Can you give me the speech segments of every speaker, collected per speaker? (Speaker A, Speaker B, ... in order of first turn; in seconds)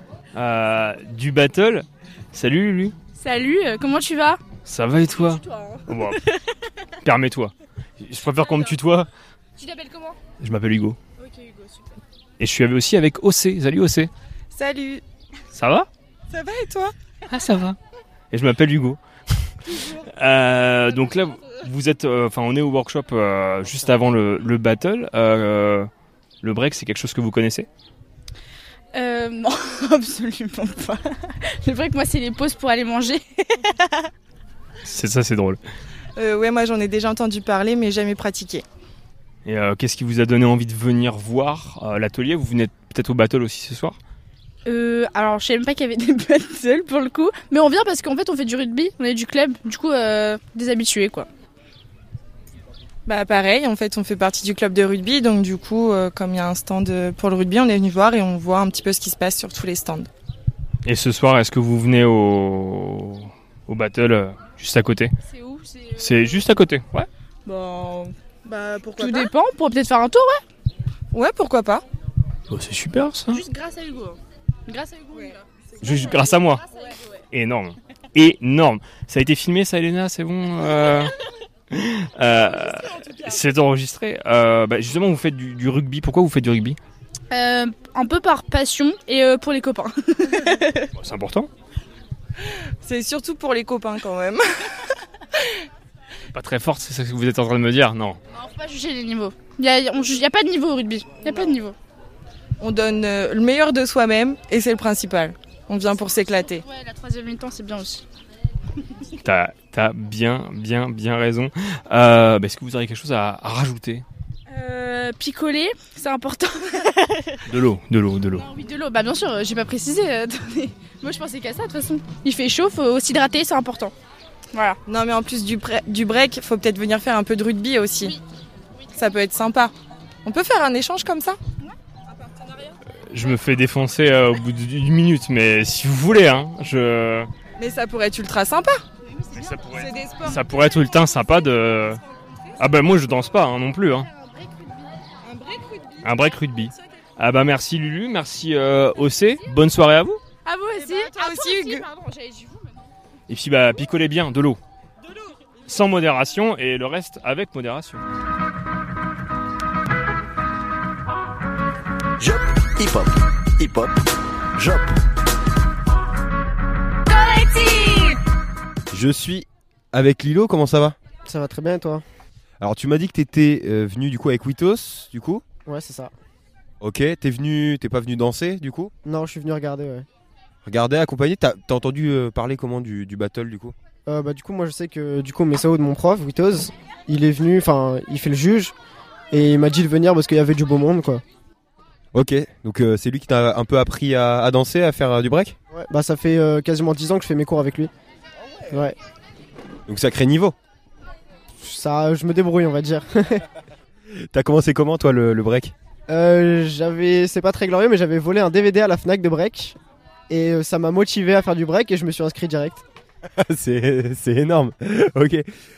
Speaker A: 0.3-2.9, 4.6-6.3, 7.0-9.1, 10.4-11.0, 12.4-14.1, 15.5-15.9, 17.3-17.8, 18.3-19.0, 19.7-25.9, 26.4-27.7, 34.8-35.6, 39.4-44.0, 60.8-65.1, 66.0-67.1, 72.5-73.4, 75.8-76.6, 77.3-81.2, 81.7-86.8, 91.0-91.5, 96.3-98.2, 109.2-114.0, 117.4-118.5, 133.1-137.3, 139.3-142.0, 142.6-144.1, 146.0-150.2, 153.3-154.6, 155.7-158.0
Speaker B: 3.1-4.4, 28.9-34.1, 44.6-51.3, 65.2-66.2, 69.0-70.4, 73.3-75.4, 87.3-90.8, 98.3-101.8, 106.6-108.0, 114.5-117.4, 118.3-123.9, 124.5-124.8, 150.4-151.8
Speaker C: 14.5-15.0, 16.3-16.9, 36.1-38.6, 53.0-60.1, 67.4-69.3, 71.1-71.8, 92.8-94.9, 101.2-101.5, 102.6-106.6, 124.8-128.2, 128.9-129.7, 130.2-131.4, 137.6-138.8, 139.7-140.4, 145.2-145.8, 150.8-151.9
Speaker D: 162.2-165.0
Speaker E: 168.9-171.0, 172.6-175.4, 176.8-178.9, 180.6-183.7, 192.1-195.5, 199.9-200.6, 204.3-205.7, 213.4-215.4
Speaker F: 171.2-172.0, 175.7-176.1, 179.0-180.1, 184.1-188.7, 189.3-191.2, 195.7-197.9, 198.7-199.0, 201.6-203.4, 206.1-209.8, 210.3-212.8